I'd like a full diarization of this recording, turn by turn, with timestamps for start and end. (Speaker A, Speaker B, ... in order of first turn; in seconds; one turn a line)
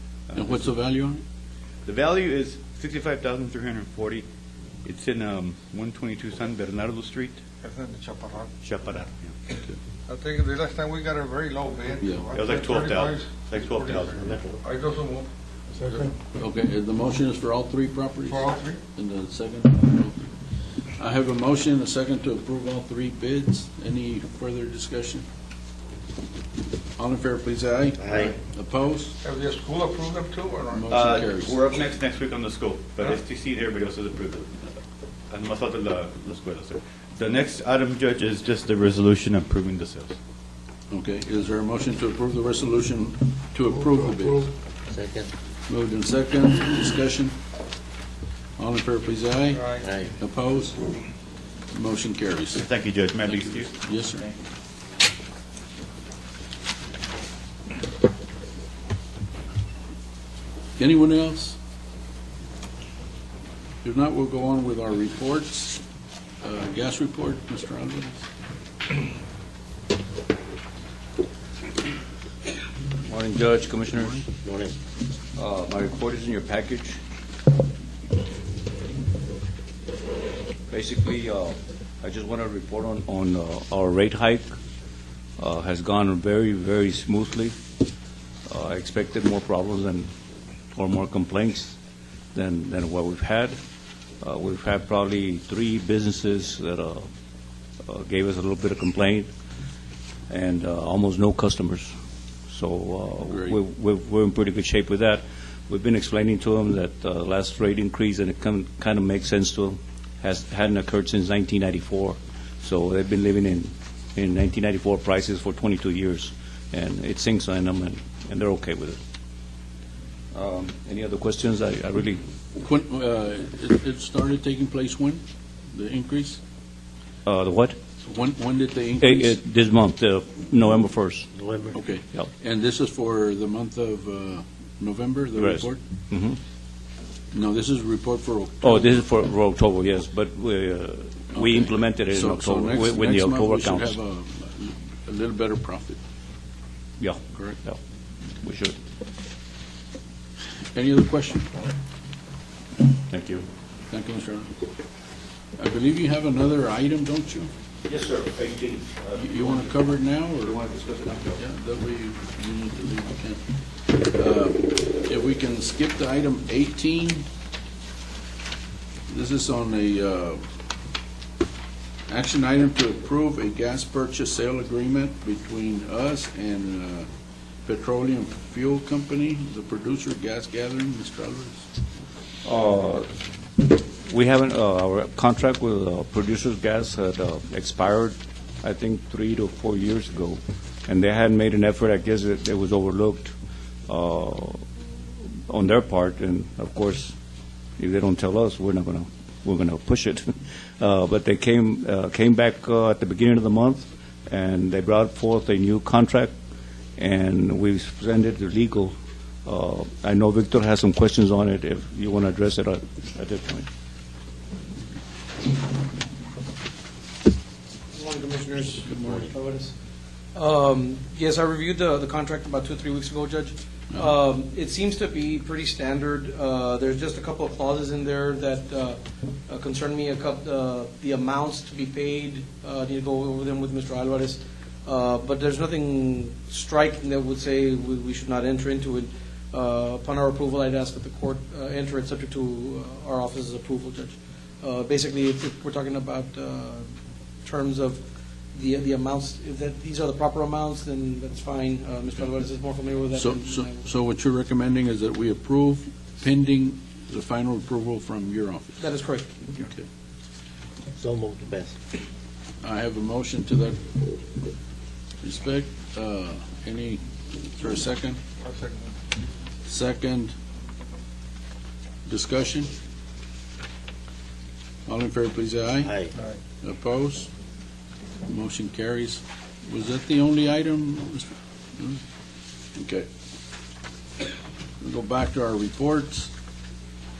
Speaker A: 0.3-0.7
Speaker B: 0.3-1.2
Speaker A: 1.8-4.2
Speaker A: 4.8-7.4
Speaker C: 7.6-8.5
Speaker A: 8.6-9.3
Speaker C: 10.1-16.1
Speaker B: 12.0-12.3
Speaker A: 12.3-14.4
Speaker D: 14.2-14.6
Speaker B: 16.4-20.3
Speaker C: 18.2-18.8
Speaker B: 21.0-25.2
Speaker B: 27.0-29.1
Speaker D: 28.0-28.3
Speaker C: 29.2-31.0
Speaker B: 30.7-31.6
Speaker A: 30.9-34.6
Speaker A: 35.3-40.2
Speaker B: 40.9-44.5
Speaker D: 44.9-45.3
Speaker B: 45.7-47.4
Speaker B: 48.6-50.8
Speaker C: 49.5-49.8
Speaker D: 49.8-50.1
Speaker B: 51.7-52.6
Speaker A: 52.5-53.7
Speaker B: 53.2-54.2
Speaker B: 60.8-61.6
Speaker B: 63.8-65.8
Speaker B: 66.4-68.2
Speaker E: 73.0-74.2
Speaker B: 74.0-74.2
Speaker D: 74.4-74.8
Speaker E: 75.3-77.0
Speaker E: 80.7-84.5
Speaker E: 85.4-87.5
Speaker E: 88.5-90.1
Speaker E: 90.7-91.8
Speaker E: 92.3-93.5
Speaker E: 94.2-97.1
Speaker E: 97.8-99.3
Speaker E: 100.3-101.9
Speaker E: 102.5-119.0
Speaker B: 103.3-103.6
Speaker E: 120.3-122.2
Speaker B: 122.6-126.4
Speaker E: 127.2-127.8
Speaker B: 128.0-129.4
Speaker E: 129.0-131.3
Speaker D: 131.3-131.8
Speaker B: 131.7-135.8
Speaker E: 135.4-136.4
Speaker B: 137.3-139.0
Speaker E: 138.6-144.0
Speaker B: 141.3-146.0
Speaker E: 147.0-147.8
Speaker B: 147.3-147.6
Speaker E: 148.4-148.8
Speaker B: 150.7-151.7
Speaker E: 153.1-153.4
Speaker B: 153.9-154.5
Speaker B: 155.6-157.5
Speaker E: 157.8-159.8
Speaker B: 159.2-160.6
Speaker E: 160.4-161.4
Speaker B: 161.4-167.2
Speaker B: 169.1-170.4
Speaker B: 172.1-177.1
Speaker B: 177.7-181.7
Speaker E: 182.4-183.1
Speaker E: 183.6-193.3
Speaker E: 193.9-194.6
Speaker E: 195.5-197.2
Speaker E: 197.8-206.3
Speaker E: 207.0-213.7
Speaker F: 217.9-219.7
Speaker B: 218.9-219.3
Speaker F: 220.3-246.9
Speaker F: 247.4-253.8
Speaker B: 253.1-258.8
Speaker F: 258.8-259.3
Speaker B: 259.5-259.9
Speaker D: 261.0-261.8
Speaker B: 262.6-263.8
Speaker B: 265.2-267.0
Speaker B: 267.6-268.2
Speaker C: 268.4-268.9
Speaker B: 269.7-270.3
Speaker B: 272.1-272.7
Speaker B: 274.9-276.1
Speaker D: 275.8-276.1
Speaker B: 276.6-277.3
Speaker B: 278.3-282.0
Speaker B: 282.7-283.1
Speaker B: 284.8-286.3